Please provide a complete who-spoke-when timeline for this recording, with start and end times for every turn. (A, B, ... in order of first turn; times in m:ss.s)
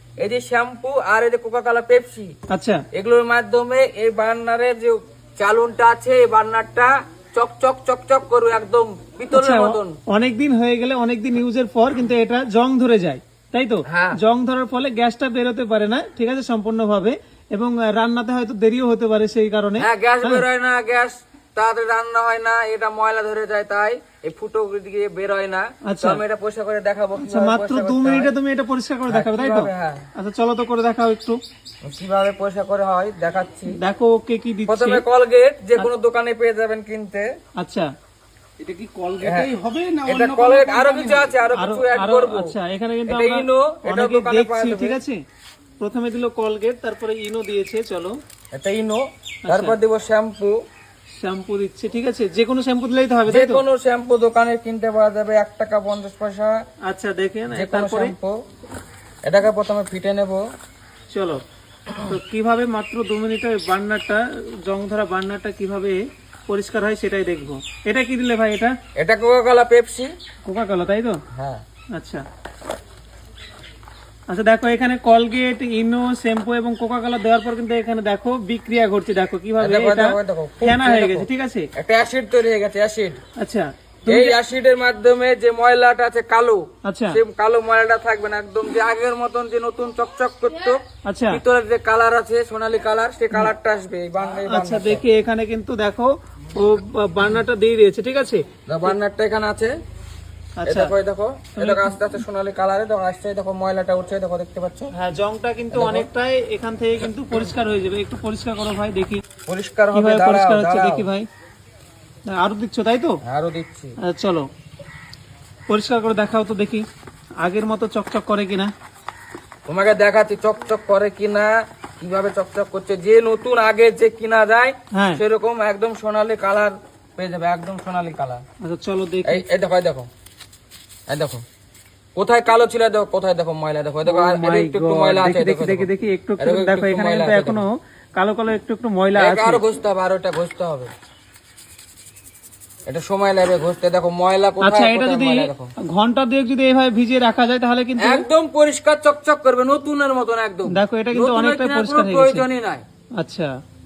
0:00.2-0:02.3 A
0:02.5-0:02.8 B
0:02.9-0:10.0 A
0:09.3-0:20.4 B
0:13.9-0:14.2 A
0:19.8-0:28.3 A
0:25.9-0:26.2 B
0:27.2-0:31.4 B
0:29.1-0:30.1 A
0:31.8-0:33.8 A
0:33.8-0:35.0 B
0:34.7-0:37.3 A
0:37.6-0:37.9 B
0:38.6-0:41.3 C
0:39.2-0:39.5 A
0:40.1-0:42.6 A
0:41.6-0:45.2 B
0:43.1-0:45.0 A
0:45.8-0:48.2 B
0:48.5-0:50.6 A
0:49.5-0:49.8 B
0:51.2-0:53.6 B
0:53.3-0:56.6 A
0:56.9-0:58.1 B
0:57.5-0:58.4 A
0:59.2-1:00.4 A
1:01.1-1:01.4 B
1:02.0-1:08.7 B
1:09.0-1:10.1 A
1:10.4-1:11.2 B
1:11.3-1:11.6 A
1:11.9-1:12.2 B
1:14.3-1:21.7 B
1:19.6-1:23.2 A
1:23.4-1:24.4 B
1:24.1-1:35.0 A
1:26.8-1:27.2 B
1:31.1-1:31.4 B
1:34.4-1:38.4 B
1:38.7-1:39.7 A
1:40.6-1:40.9 B
1:40.6-1:44.9 A
1:41.6-1:42.1 B
1:45.0-1:49.2 B
1:45.7-1:46.1 A
1:49.5-1:51.1 A
1:49.9-1:51.3 B
1:52.3-1:53.2 B
1:53.2-1:54.0 A
1:54.0-1:54.5 B
1:55.7-1:56.8 B
1:57.4-1:58.7 B
1:59.7-2:08.4 A
2:04.9-2:05.2 B
2:08.6-2:09.4 B
2:09.3-2:10.1 A
2:11.1-2:11.4 A
2:12.2-2:17.7 A
2:14.1-2:19.6 B
2:19.2-2:20.9 A
2:22.9-2:25.7 A
2:24.6-2:28.2 B
2:28.0-2:32.8 A
2:30.7-2:32.4 B
2:33.2-2:33.5 B